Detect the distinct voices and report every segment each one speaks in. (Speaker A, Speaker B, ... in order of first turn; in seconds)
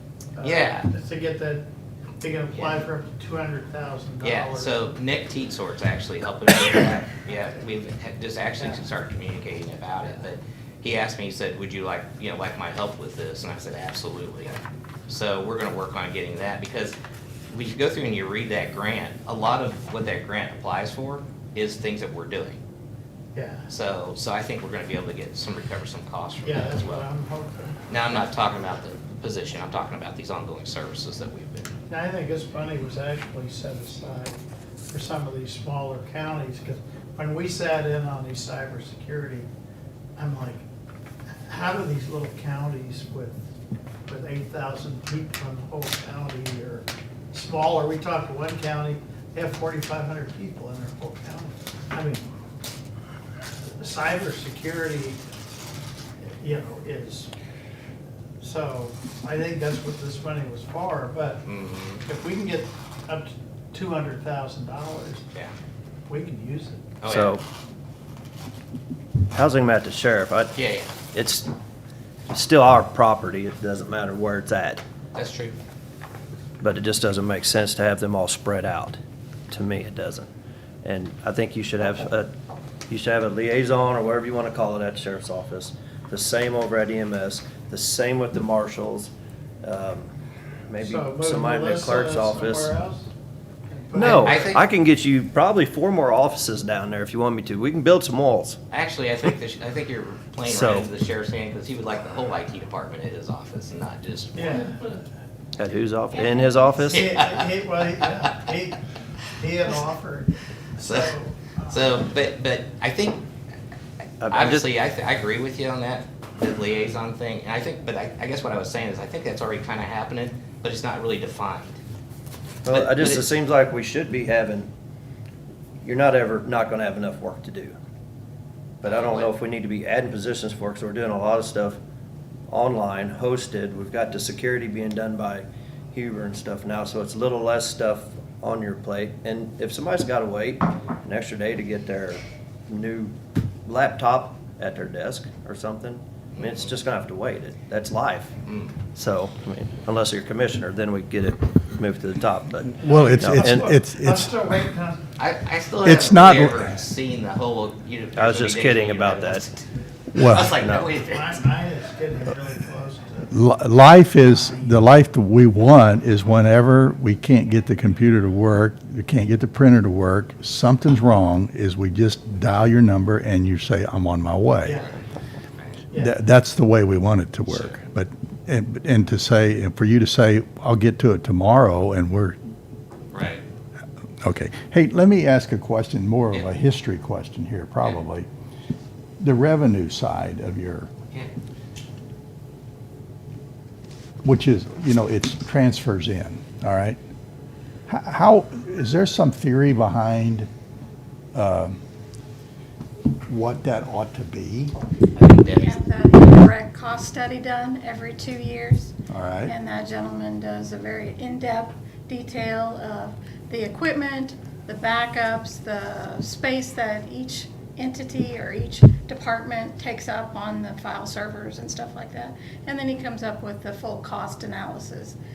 Speaker A: 0.3-1.7, 2.2-5.0, 23.3-23.7, 26.4-28.2, 31.9-39.5, 40.1-40.6, 41.3-43.5, 44.1-52.2, 53.8-55.2, 56.4-57.3, 58.4-61.5, 62.0-65.2, 66.1-66.8, 90.8-93.1, 93.7-94.5, 104.3-104.8, 106.9-108.8, 109.4-112.1, 152.8-155.1, 161.0-163.4, 164.3-164.8, 174.6-174.9, 175.9-176.2
Speaker B: 0.4-0.9, 2.5-2.8, 4.2-17.0, 17.5-22.6, 23.7-27.0, 27.9-31.7, 61.5-62.0, 67.0-67.4, 70.5-70.9, 75.1-75.6, 94.0-94.6, 98.7-104.7, 106.9-107.4, 110.8-111.1, 111.7-113.2, 114.3-121.8, 122.7-123.3, 128.8-129.3, 146.4-146.6, 148.5-148.8, 155.2-159.6, 160.1-161.4, 183.1-183.4, 205.1-205.8
Speaker C: 67.0-67.4, 69.3-70.5, 71.1-71.5, 72.3-74.8, 76.6-80.3, 80.8-82.3, 82.9-90.1, 90.7-92.7, 93.9-98.6, 100.4-100.9, 105.6-107.1, 114.2-114.7, 122.6-124.7, 125.8-127.7, 128.8-131.8, 132.5-143.1, 143.7-148.3, 148.9-153.7, 158.2-159.4, 160.6-160.9
Speaker D: 106.1-106.8, 205.5-225.2
Speaker E: 152.8-154.3, 155.8-156.8, 160.1-160.5, 163.3-174.8, 175.9-182.4, 184.2-188.3, 189.2-190.9, 194.2-197.0, 197.9-200.5, 201.3-201.8, 203.3-204.7, 209.1-209.5